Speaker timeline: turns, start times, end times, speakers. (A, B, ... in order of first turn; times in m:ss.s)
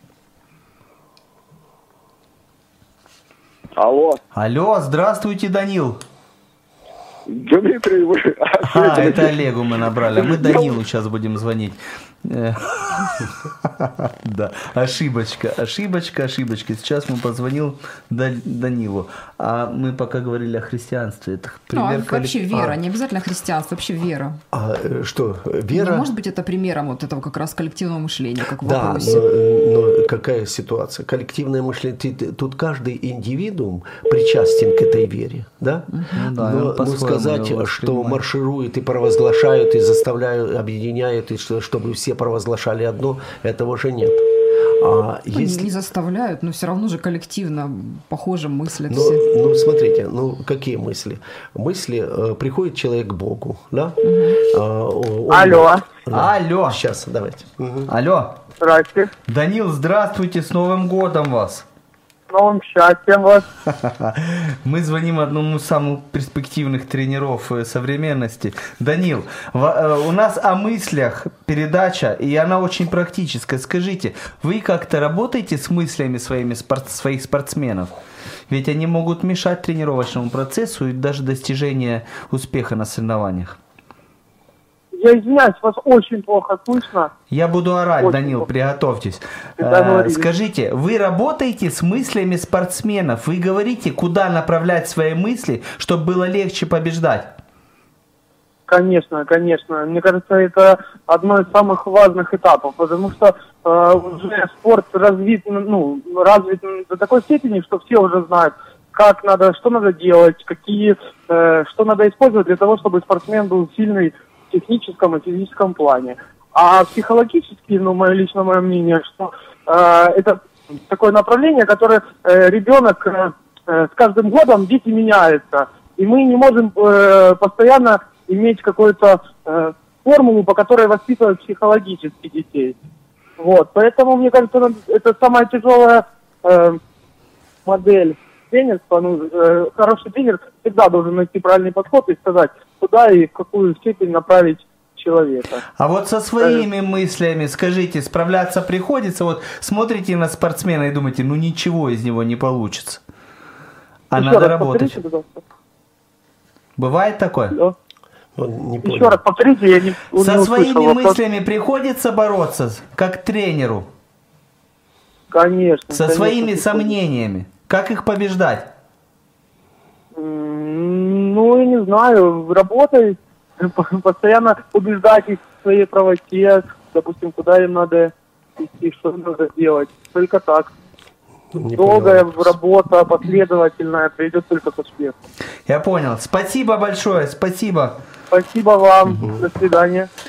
0:03.8-0:04.2 A
0:04.3-0:06.0 B
0:07.3-0:09.4 A
0:08.6-0:22.5 B
0:10.2-0:10.7 A
0:21.7-0:24.4 C
0:24.5-0:26.1 D
0:25.7-0:29.2 C
0:28.6-0:44.2 D
0:35.9-0:36.2 C
0:36.1-0:38.2 B
0:44.8-0:45.7 D
0:45.3-0:49.2 C
0:48.9-0:57.9 D
0:54.0-0:54.4 C
0:55.3-0:55.8 E
0:56.1-0:56.8 B
0:57.9-0:58.4 B
0:58.6-0:59.1 E
0:59.3-1:01.6 B
1:02.3-1:03.4 E
1:03.7-1:17.9 B
1:18.5-1:23.6 B
1:25.0-1:27.1 E
1:27.3-1:37.3 B
1:28.0-1:28.4 E
1:29.6-1:30.3 E
1:38.7-2:12.8 E
2:13.4-2:16.8 E
2:17.6-2:25.6 E
2:25.8-2:33.0 B
2:34.1-2:35.0 B
2:34.2-2:35.4 E
2:36.8-2:37.6 B
2:38.4-2:39.2 D
2:38.8-2:41.2 E
2:40.2-2:43.9 B
2:45.3-2:46.9 E
2:45.9-2:48.7 B
2:50.1-3:00.7 E
3:01.5-3:02.5 D
3:01.7-3:05.1 E
3:05.7-3:08.0 B
3:08.3-3:10.1 E
3:09.2-3:09.4 D